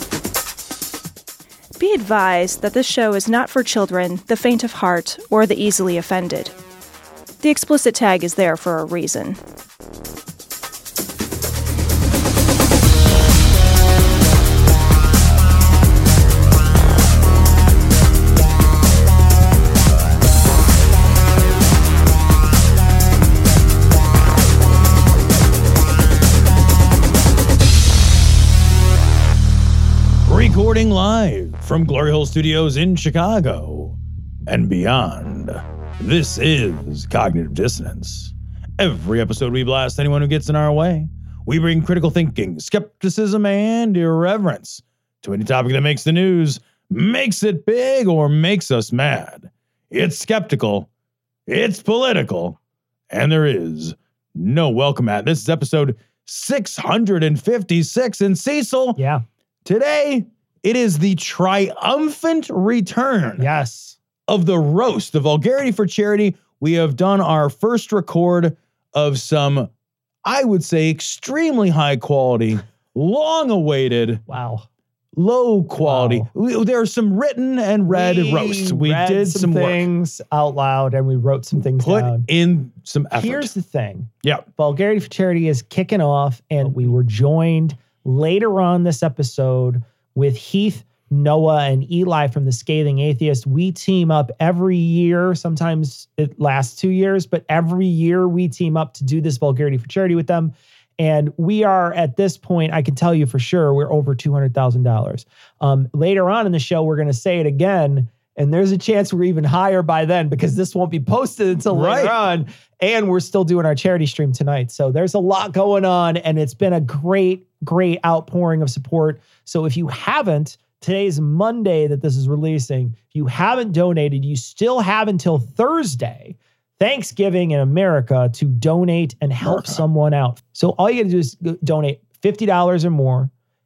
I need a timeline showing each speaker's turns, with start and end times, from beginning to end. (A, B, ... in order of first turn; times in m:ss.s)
0:01.8-0:06.5 A
0:07.4-0:09.4 A
0:30.2-0:50.9 B
0:51.5-0:52.6 B
0:53.1-0:59.0 B
0:59.0-0:59.2 C
0:59.6-1:03.4 B
1:03.4-1:04.0 C
1:04.3-1:09.7 B
1:10.2-1:14.2 B
1:14.3-1:14.6 C
1:15.1-1:19.8 B
1:15.8-1:16.3 C
1:17.9-1:22.3 C
1:21.8-1:23.5 B
1:23.1-2:13.3 C
1:51.7-1:52.2 B
2:09.4-2:09.8 B